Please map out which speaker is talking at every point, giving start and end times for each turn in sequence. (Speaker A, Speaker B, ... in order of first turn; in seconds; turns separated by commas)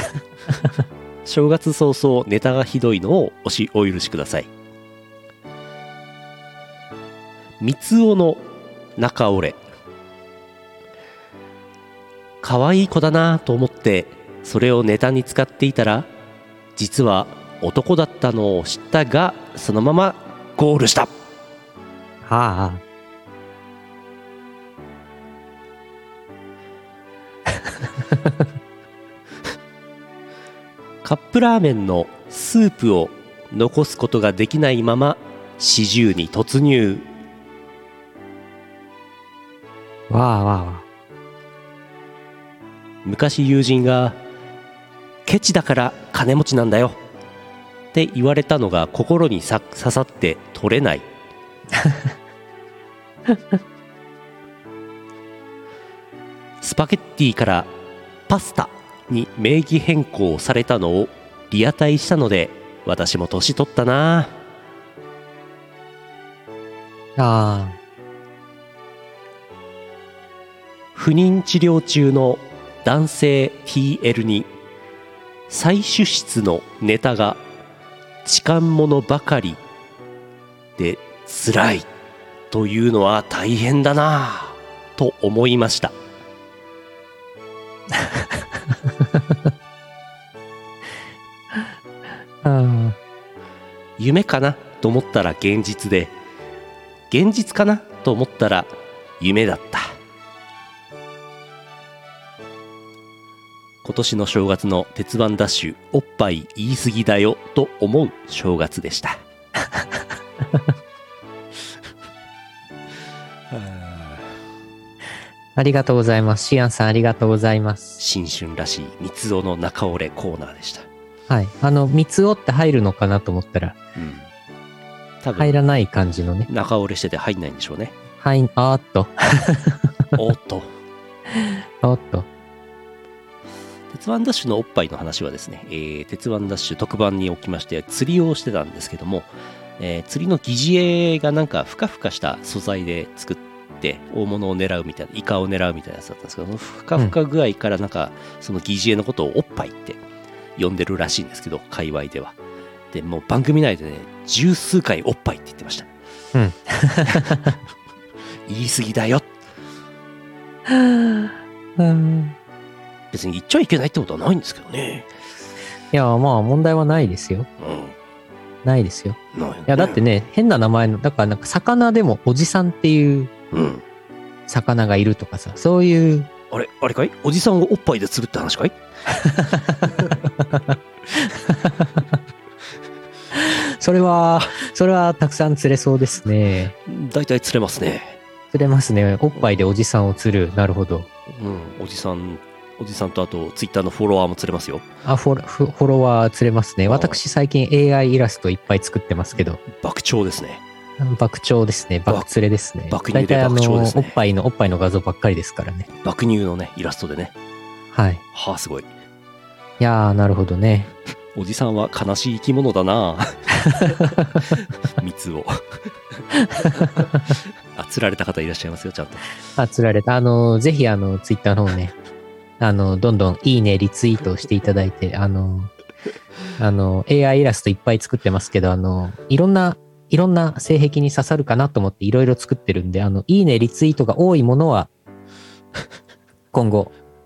Speaker A: 1.2-4.5, Speaker A: 7.6-9.6, Speaker A: 12.4-16.1, Speaker A: 16.8-21.1, Speaker B: 22.2-22.8, Speaker A: 31.0-37.1, Speaker B: 40.1-40.9, Speaker A: 43.0-44.2, Speaker A: 45.3-47.0, Speaker A: 47.9-51.1, Speaker A: 56.6-57.7, Speaker A: 58.3-64.4, Speaker B: 67.2-67.8, Speaker A: 71.0-74.5, Speaker A: 75.5-77.4, Speaker A: 78.2-79.6, Speaker A: 80.8-81.9, Speaker A: 82.5-86.0, Speaker B: 87.9-88.5, Speaker B: 89.0-89.5, Speaker B: 92.4-93.0, Speaker A: 94.0-96.2, Speaker A: 97.1-100.0, Speaker A: 103.8-109.2, Speaker A: 113.5-114.4, Speaker B: 115.6-118.0, Speaker A: 118.0-120.9, Speaker B: 121.3-123.8, Speaker A: 124.0-124.3, Speaker A: 125.2-125.6, Speaker B: 125.4-126.5, Speaker A: 126.5-128.0, Speaker B: 128.2-129.9, Speaker A: 130.2-130.7, Speaker B: 131.4-132.3, Speaker A: 133.9-150.0, Speaker A: 150.6-152.4, Speaker A: 152.9-155.9, Speaker B: 156.3-157.6, Speaker A: 158.5-159.3, Speaker B: 160.7-162.4, Speaker A: 163.1-165.1, Speaker B: 165.9-167.5, Speaker A: 167.6-167.9, Speaker B: 168.6-173.3, Speaker A: 169.3-170.0, Speaker A: 173.5-173.8, Speaker B: 174.5-176.3, Speaker A: 176.5-178.8, Speaker B: 179.1-182.1, Speaker B: 183.3-186.7, Speaker A: 186.8-188.2, Speaker B: 188.5-191.1, Speaker A: 191.3-194.9, Speaker B: 195.0-199.6, Speaker A: 196.9-197.2, Speaker A: 199.7-200.6, Speaker B: 201.0-205.9, Speaker A: 202.9-204.2, Speaker A: 206.0-207.3, Speaker B: 207.9-208.2, Speaker A: 208.3-208.9, Speaker B: 209.8-210.9, Speaker A: 211.3-215.8, Speaker B: 213.8-214.2, Speaker B: 216.6-217.1, Speaker A: 216.6-217.1, Speaker A: 217.7-219.3, Speaker B: 219.6-221.9, Speaker B: 222.6-225.7, Speaker B: 226.6-234.9, Speaker B: 236.5-236.9